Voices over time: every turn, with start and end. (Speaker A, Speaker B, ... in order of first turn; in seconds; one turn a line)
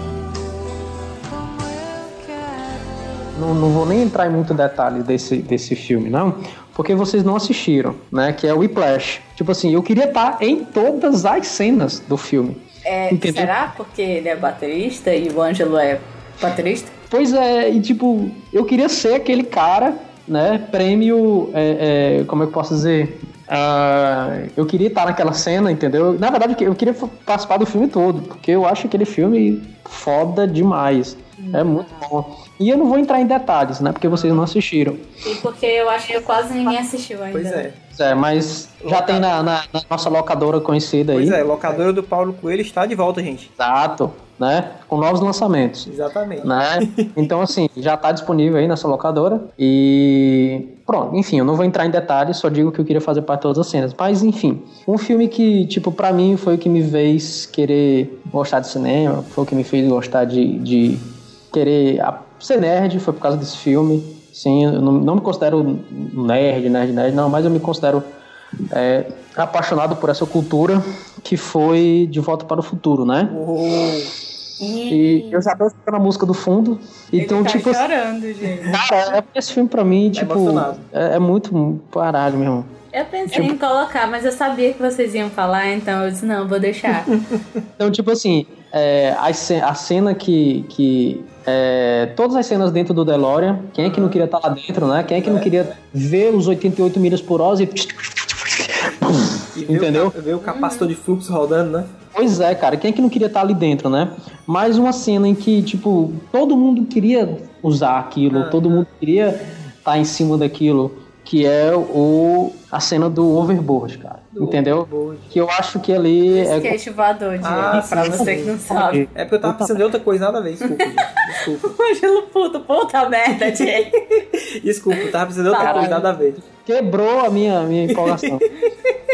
Speaker A: 3.3-13.5
Speaker B: 12.8-16.9
Speaker A: 17.1-35.0
Speaker B: 31.4-32.1
Speaker C: 34.1-34.4
Speaker B: 35.2-37.6
Speaker C: 37.3-37.8
Speaker A: 37.9-41.4
Speaker C: 38.8-39.3
Speaker C: 41.1-43.5
Speaker A: 43.6-45.9
Speaker C: 45.9-47.3
Speaker A: 46.4-68.1
Speaker A: 68.7-73.4
Speaker C: 73.3-74.1
Speaker B: 74.6-75.5
Speaker A: 74.9-77.9
Speaker B: 77.2-78.8
Speaker A: 78.6-82.7
Speaker C: 80.1-80.8
Speaker B: 82.9-87.1
Speaker A: 83.3-83.6
Speaker A: 87.8-100.1
Speaker C: 93.8-94.2
Speaker C: 95.2-95.7
Speaker C: 99.5-101.9
Speaker B: 100.4-100.9
Speaker A: 102.1-116.8
Speaker C: 108.3-108.9
Speaker C: 114.3-115.3
Speaker B: 116.3-119.0
Speaker C: 117.4-118.5
Speaker A: 118.1-119.8
Speaker C: 119.1-121.8
Speaker B: 120.7-123.9
Speaker C: 123.4-126.4
Speaker B: 125.5-126.1
Speaker A: 125.6-128.5
Speaker C: 127.9-128.5